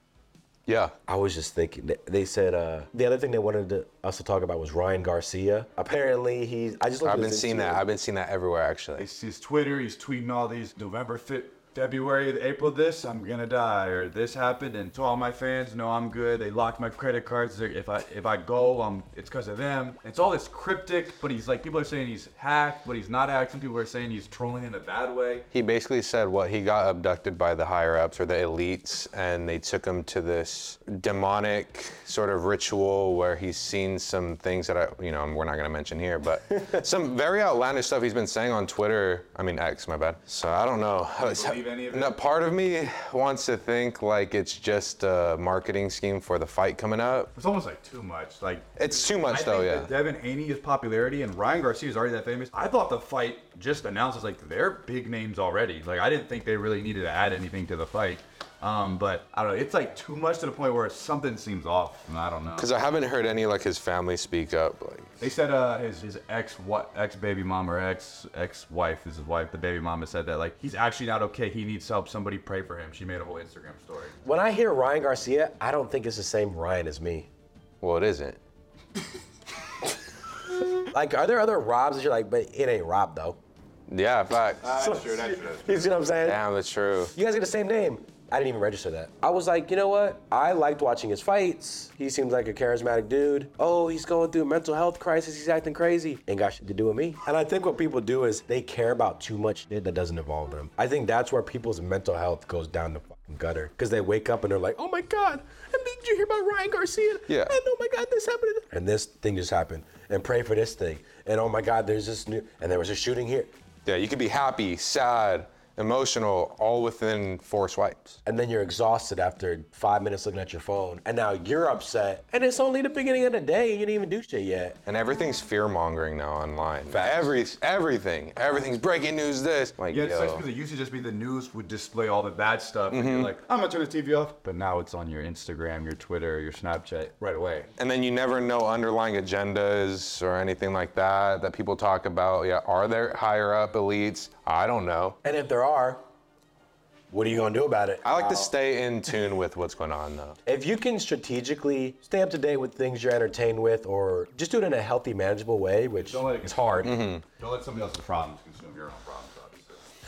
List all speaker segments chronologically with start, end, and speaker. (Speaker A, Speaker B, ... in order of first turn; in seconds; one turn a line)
Speaker A: 0.7-0.9
Speaker B: 1.1-7.8
Speaker A: 7.0-9.1
Speaker C: 9.0-25.4
Speaker A: 25.5-47.3
Speaker C: 41.2-42.2
Speaker C: 47.4-62.7
Speaker A: 48.8-49.9
Speaker A: 62.6-65.1
Speaker C: 65.2-74.2
Speaker B: 74.2-77.3
Speaker A: 77.8-78.4
Speaker B: 80.9-83.4
Speaker A: 83.9-87.1
Speaker B: 84.6-86.4
Speaker B: 87.1-113.5
Speaker A: 107.3-107.5
Speaker A: 113.9-118.2
Speaker B: 118.2-124.8
Speaker A: 124.9-130.4
Speaker B: 126.9-127.3
Speaker C: 129.9-137.7
Speaker A: 132.9-133.3
Speaker A: 137.8-145.2
Speaker B: 145.2-146.0
Speaker B: 147.1-148.5
Speaker A: 148.0-150.4
Speaker B: 150.5-157.0
Speaker C: 156.1-159.8
Speaker A: 156.8-157.2